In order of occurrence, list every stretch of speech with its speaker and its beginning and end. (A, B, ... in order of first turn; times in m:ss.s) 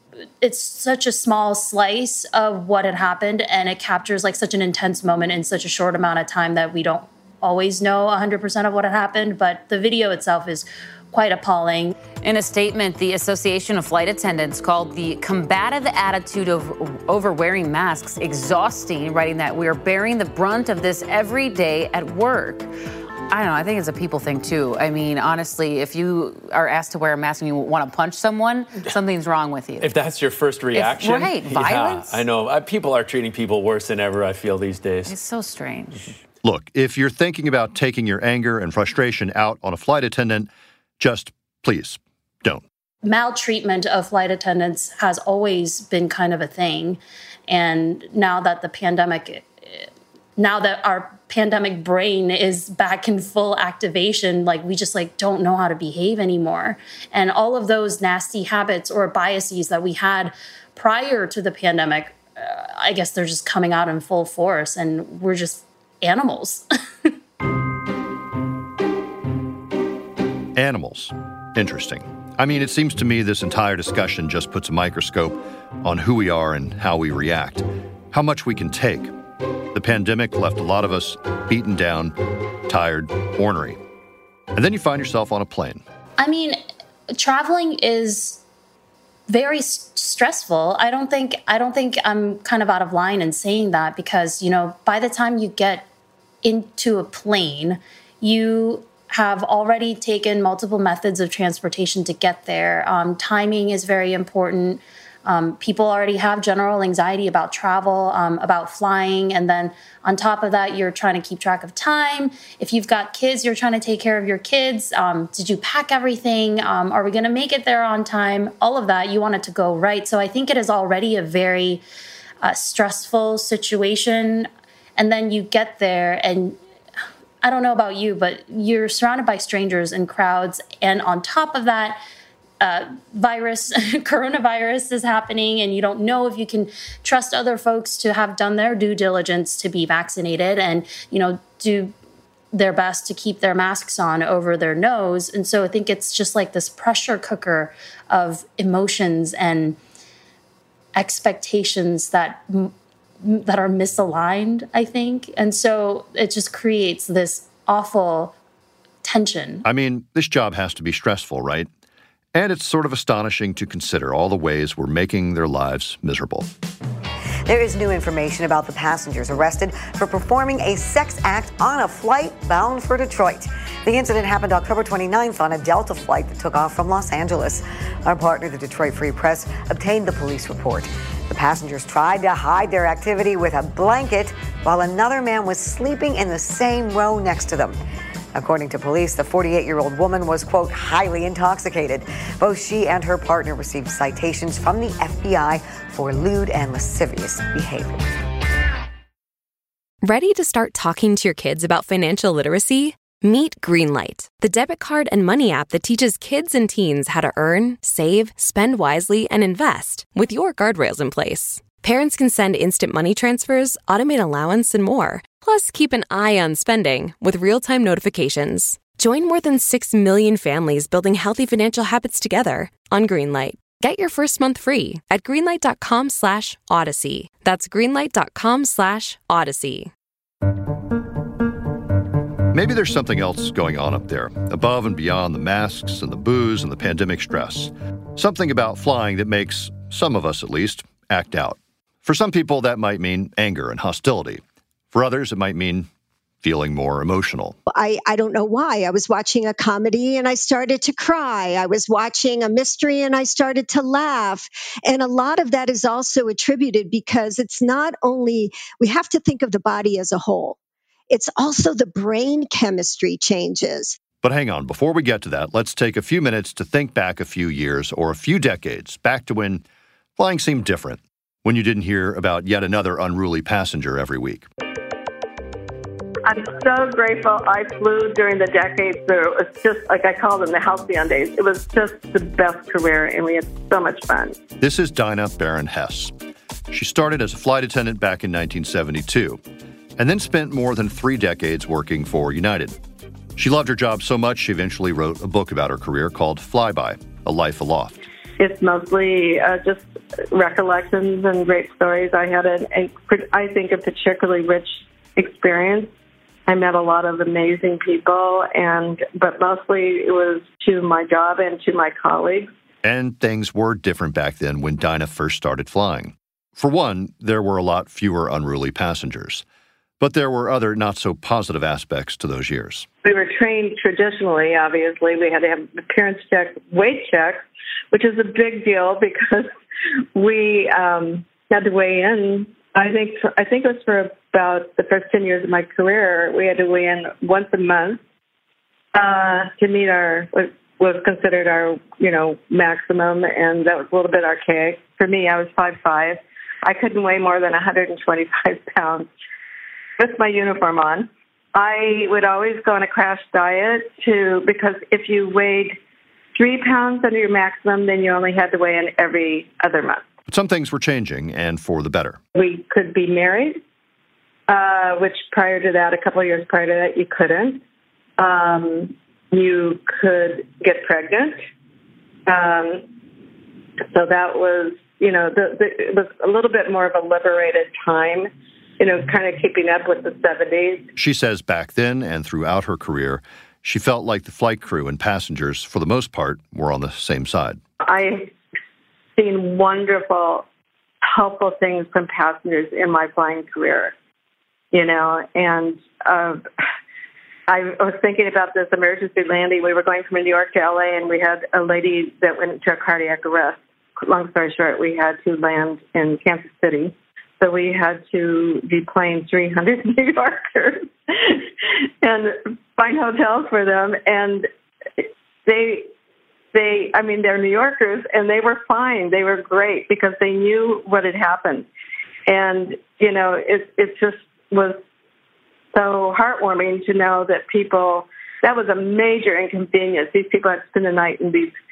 0:00.4-0:12.0 A
0:12.2-0:22.7 B
0:23.3-0:29.9 B
0:29.8-0:35.2 C
0:30.7-0:32.2 B
0:35.1-0:36.2 B
0:36.4-0:42.6 D
0:43.0-0:49.9 A
0:50.4-1:06.6 A
1:10.6-1:19.1 D
1:19.7-1:22.2 D
1:22.7-1:23.8 D
1:24.5-1:25.8 D
1:26.2-1:26.6 A
1:27.2-1:28.4 A
1:29.3-1:35.9 A
1:36.4-2:01.8 A
2:02.4-2:06.6 A
2:07.4-2:12.0 A
2:12.6-2:21.9 A
2:22.5-2:29.8 A
2:31.0-2:38.3 A
2:39.0-2:39.6 A
2:39.6-2:41.7 D
2:42.3-2:46.5 D
2:47.5-3:07.8 E
3:08.4-3:18.1 E
3:20.0-3:49.9 F
3:52.5-4:05.9 D
4:06.4-4:07.6 D
4:07.7-4:20.6 G
4:21.1-4:24.0 G
4:24.2-4:29.6 D
4:30.2-4:34.5 D
4:36.2-4:44.4 H
4:44.6-4:46.1 D
4:46.7-4:49.4 D
4:50.0-4:52.8 D
4:53.4-4:58.0 D
4:58.4-5:05.9 H
5:06.5-5:12.5 H
5:12.8-5:19.4 D
5:20.0-5:22.9 D
5:23.0-5:29.5 H
5:30.1-5:38.0 H
5:38.9-5:49.1 H
5:50.0-5:55.8 H
5:56.4-6:00.0 H
6:00.3-6:02.2 D
6:02.4-6:03.6 H
6:04.5-6:07.6 H
6:08.2-6:11.4 H
6:12.3-6:12.8 H
6:13.9-6:20.9 H
6:21.0-6:27.6 D
6:27.8-6:28.3 H
6:29.2-6:30.4 H
6:31.0-6:33.9 H
6:34.7-6:36.4 H
6:37.5-6:51.4 H
6:52.0-6:54.5 H
6:55.0-6:55.9 H
6:56.5-7:01.7 H
7:02.3-7:04.8 H
7:05.7-7:11.5 H